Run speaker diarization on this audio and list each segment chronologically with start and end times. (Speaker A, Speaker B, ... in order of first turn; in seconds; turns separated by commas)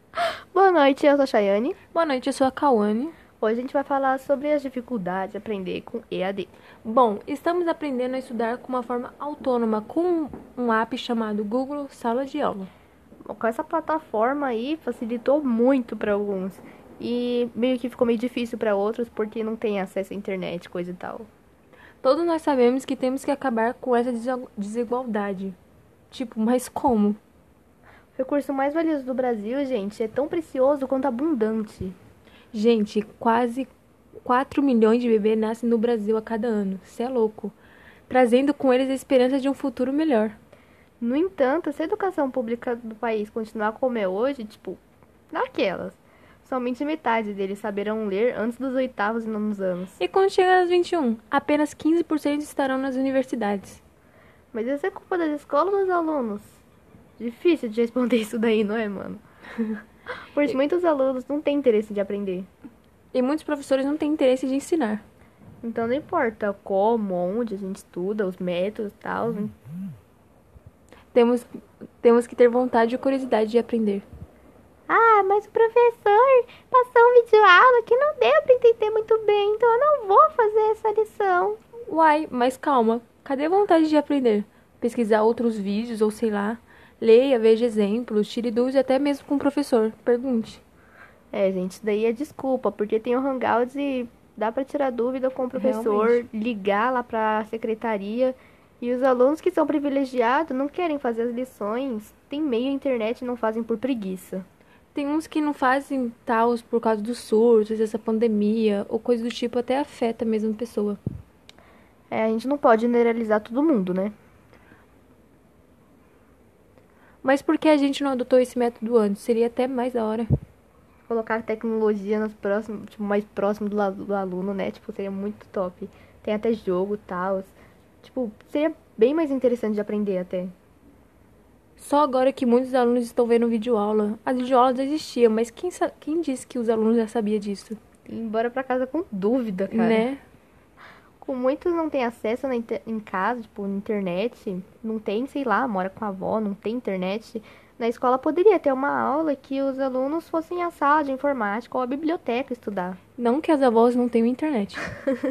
Speaker A: 0.2-1.8, Speaker B: 1.9-3.1, Speaker A: 3.4-6.5, Speaker B: 6.8-12.7, Speaker A: 13.2-21.3, Speaker B: 22.0-25.6, Speaker B: 26.1-27.2, Speaker A: 28.1-32.0, Speaker B: 32.5-33.7, Speaker B: 34.2-37.6, Speaker B: 38.1-40.4, Speaker A: 41.0-50.0, Speaker B: 50.0-53.8, Speaker A: 54.5-56.6, Speaker A: 57.2-59.2, Speaker A: 60.1-62.5, Speaker B: 63.1-65.0, Speaker A: 65.6-69.5, Speaker B: 71.1-74.1, Speaker A: 74.9-81.6, Speaker B: 81.9-90.6, Speaker A: 91.3-104.5, Speaker B: 95.5-96.2, Speaker B: 104.9-111.0, Speaker A: 112.1-114.1, Speaker B: 117.2-120.3, Speaker A: 121.1-130.5, Speaker B: 131.8-137.8, Speaker A: 138.1-140.1, Speaker B: 139.7-140.2, Speaker A: 141.2-153.0, Speaker B: 153.2-154.8